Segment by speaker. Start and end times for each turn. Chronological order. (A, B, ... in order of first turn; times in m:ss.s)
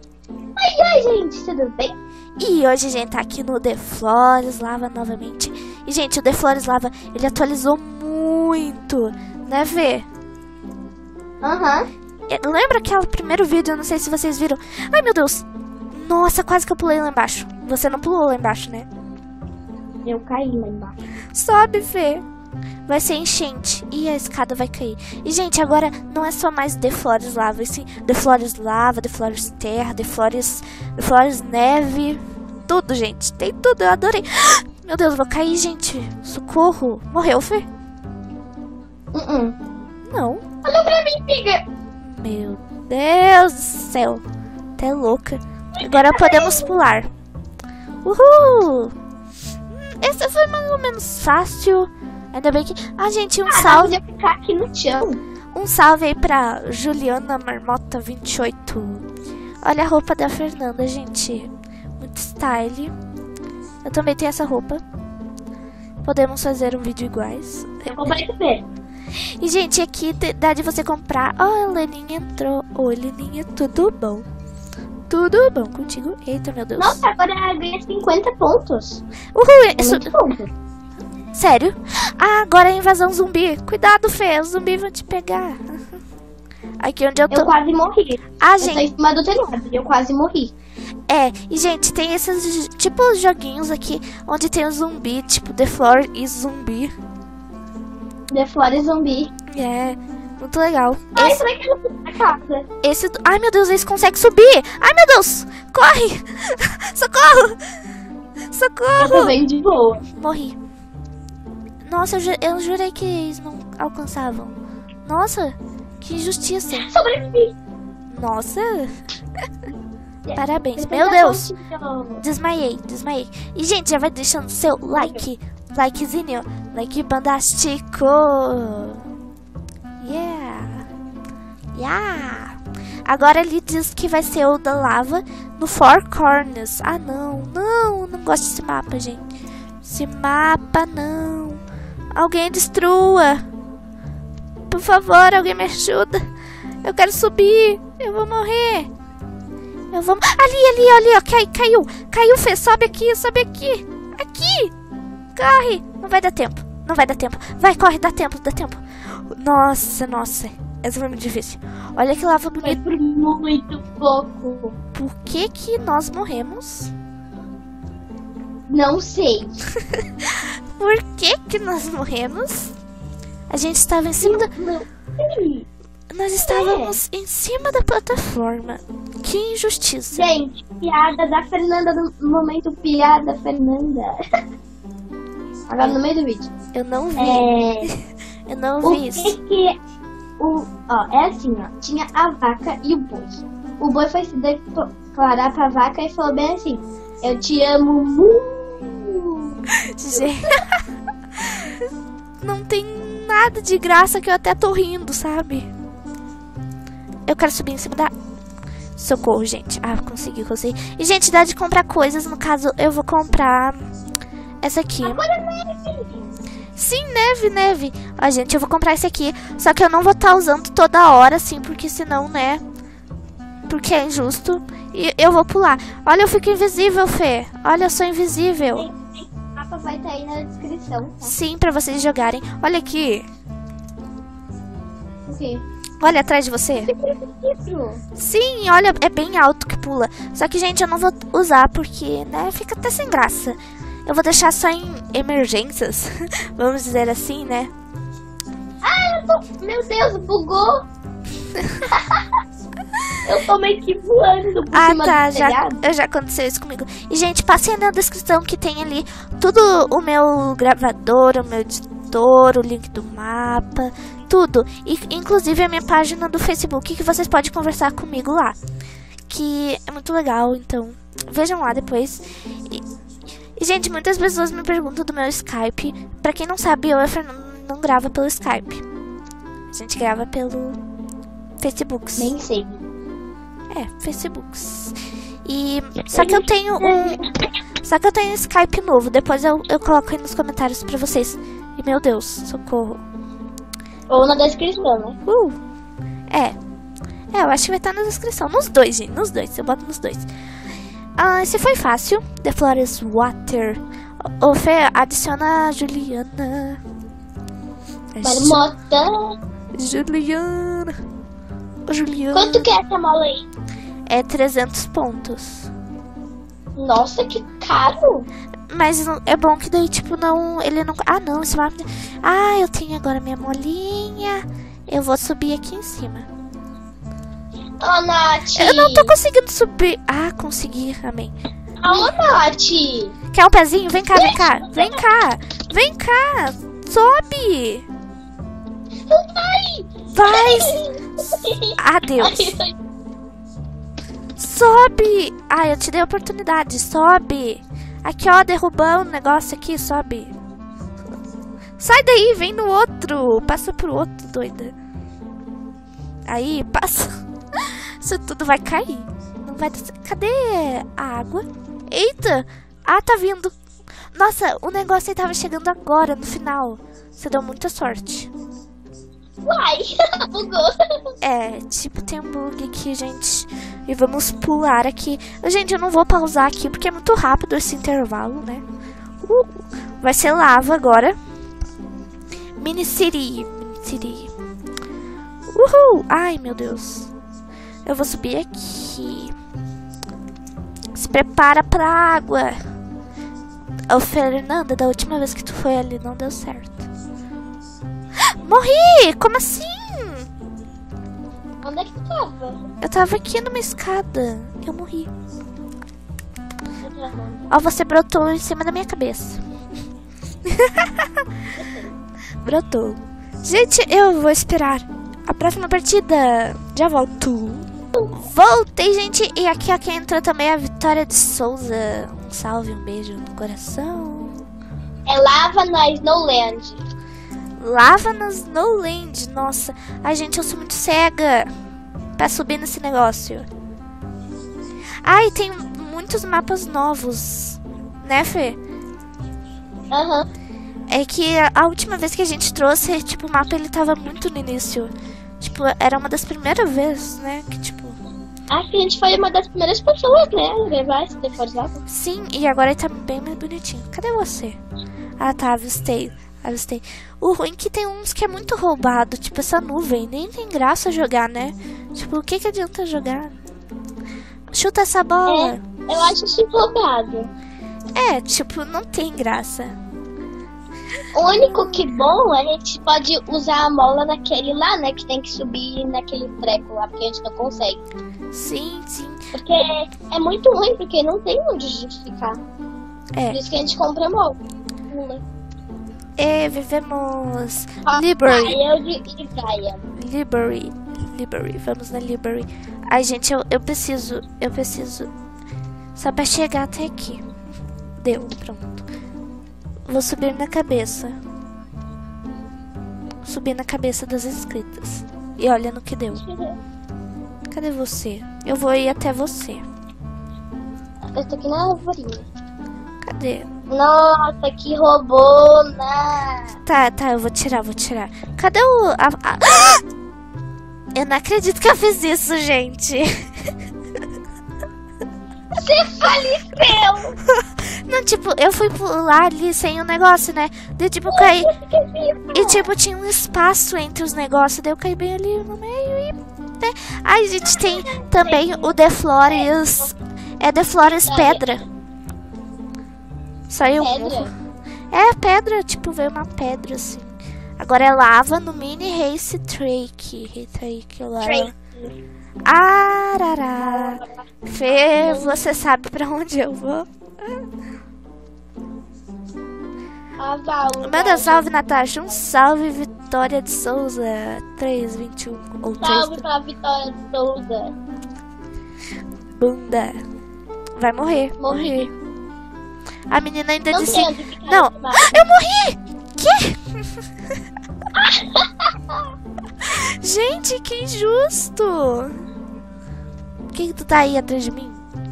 0:00.6-0:01.9 A
0:02.4-0:10.0 B
0:11.4-0:11.9 A
0:12.3-0:18.9 B
0:20.0-0:21.0 A
0:21.3-0:22.2 B
0:22.9-0:37.7 B
0:39.1-0:39.6 A
0:40.1-0:40.4 B
0:40.6-0:41.6 A
0:42.0-0:44.2 B
0:44.8-0:47.1 B
0:45.8-0:46.7 A
0:48.0-0:48.9 B
0:49.7-0:54.0 B
0:53.5-0:55.2 A
0:55.5-0:59.0 B
0:59.6-1:02.9 B
1:03.8-1:04.8 B
1:06.0-1:08.2 B
1:07.9-1:08.6 A
1:09.2-1:14.3 B
1:15.1-1:17.0 B
1:16.8-1:19.0 A
1:19.3-1:20.1 B
1:19.8-1:20.5 A
1:21.3-1:25.8 B
1:26.8-1:27.5 B
1:27.3-1:30.5 A
1:28.4-1:28.9 B
1:31.1-1:36.9 B
1:38.3-1:39.3 A
1:39.5-1:41.4 B
1:41.2-1:42.7 A
1:42.8-1:47.6 B
1:48.5-1:49.3 B
1:49.0-1:50.0 A
1:50.1-1:50.6 B
1:51.8-1:56.9 B
1:56.7-1:57.5 A
1:58.1-1:59.0 B
2:00.2-2:02.2 A
2:00.3-2:01.5 B
2:02.2-2:09.1 B
2:04.9-2:05.2 A
2:10.0-2:10.8 B
2:11.7-2:12.6 B
2:13.1-2:19.2 B
2:19.8-2:21.6 B
2:22.1-2:23.4 B
2:24.7-2:26.3 B
2:26.8-2:28.9 B
2:29.9-2:34.7 B
2:35.4-2:42.8 B
2:42.6-2:44.7 A
2:44.9-2:46.9 B
2:48.7-2:49.6 A
2:49.9-2:52.7 B
2:53.5-2:54.5 B
2:54.2-2:55.7 A
2:56.1-3:00.2 B
2:56.4-2:57.0 A
3:00.1-3:04.2 A
3:05.7-3:06.5 A
3:06.7-3:09.4 B
3:07.2-3:07.9 A
3:08.8-3:09.8 A
3:10.4-3:19.5 A
3:20.0-3:20.6 B
3:21.4-3:21.7 B
3:22.4-3:25.7 B
3:27.3-3:28.1 B
3:29.0-3:33.9 B
3:34.6-3:35.2 B
3:35.0-3:36.3 A
3:36.8-3:42.6 B
3:43.7-3:48.9 B
3:48.7-3:51.3 A
3:51.2-3:53.2 B
3:55.3-3:55.6 A
3:56.0-3:56.9 B
3:56.9-3:58.0 A
3:58.2-4:07.7 B
4:08.8-4:10.8 A
4:11.9-4:12.2 A
4:13.2-4:15.8 A
4:14.7-4:28.6 B
4:29.3-4:32.8 B
4:33.6-4:38.8 B
4:39.7-4:40.8 B
4:41.6-4:42.3 B
4:42.2-4:42.8 A
4:43.7-4:44.9 B
4:45.4-4:47.2 B
4:46.1-4:47.3 A
4:47.8-4:53.0 B
4:54.1-4:55.2 A
4:55.2-4:55.6 B
4:56.3-4:56.6 B
4:57.3-5:00.2 B
5:01.2-5:03.8 B
5:04.4-5:06.8 B
5:08.1-5:08.6 B
5:08.2-5:09.3 A
5:09.7-5:11.0 B
5:11.9-5:12.7 B
5:12.3-5:13.4 A
5:14.1-5:15.7 B
5:16.8-5:18.3 A
5:18.7-5:26.3 B
5:27.8-5:29.1 A
5:28.5-5:31.3 B
5:31.8-5:33.1 A
5:33.3-5:37.8 B
5:34.1-5:35.0 A
5:39.1-5:42.7 A
5:40.1-5:40.8 B
5:41.8-5:42.5 B
5:44.4-5:50.3 B
5:51.8-5:54.7 B
5:56.3-6:03.5 B
6:04.1-6:08.3 B
6:09.4-6:10.8 A
6:11.2-6:18.6 B
6:19.2-6:21.2 B
6:22.6-6:24.3 B
6:25.5-6:27.1 B
6:27.8-6:29.3 B
6:30.9-6:32.6 B
6:33.9-6:36.8 B
6:38.4-6:40.2 B
6:41.6-6:42.6 A
6:42.8-6:45.1 B
6:46.8-6:47.5 A
6:47.5-6:49.4 B
6:50.5-6:51.2 B
6:51.6-6:51.9 A
6:52.4-7:04.4 B
7:05.0-7:06.8 A
7:07.6-7:11.5 B
7:12.2-7:13.5 B
7:15.0-7:18.6 B
7:19.9-7:20.3 A
7:20.9-7:28.0 B
7:28.5-7:31.8 A
7:31.9-7:34.6 B
7:35.2-7:43.3 B
7:44.5-7:45.6 B
7:45.2-7:47.3 A
7:48.0-7:49.8 B
7:51.1-7:57.8 A
7:51.4-7:51.8 B
7:58.3-7:59.2 B
7:59.3-8:02.4 A
8:03.1-8:03.4 B
8:03.3-8:04.4 A
8:04.9-8:05.2 A
8:06.2-8:08.6 B
8:07.8-8:09.8 A
8:09.9-8:15.1 B
8:16.0-8:17.2 B
8:18.0-8:18.8 B
8:19.9-8:21.2 B
8:23.2-8:26.2 B
8:26.1-8:26.6 A
8:27.5-8:29.6 B
8:31.1-8:32.2 A
8:33.0-8:33.5 B
8:33.7-8:36.5 A
8:36.6-8:39.8 B
8:40.9-8:43.1 B
8:45.6-8:47.2 A
8:47.4-8:51.5 B
8:51.1-8:52.7 A
8:52.3-9:01.6 B
8:57.5-8:59.5 A
9:00.8-9:01.6 A
9:03.5-9:04.3 B
9:03.8-9:04.3 A
9:04.9-9:11.5 B
9:11.2-9:11.9 A
9:12.4-9:17.4 B
9:13.5-9:15.5 A
9:20.2-9:21.5 A
9:20.8-9:26.2 B
9:25.8-9:27.7 A
9:29.3-9:30.0 B
9:30.8-9:31.9 B
9:31.4-9:31.9 A
9:33.1-9:37.0 B
9:33.7-9:35.1 A
9:38.0-9:39.0 A
9:39.6-9:42.2 B
9:43.5-9:44.8 B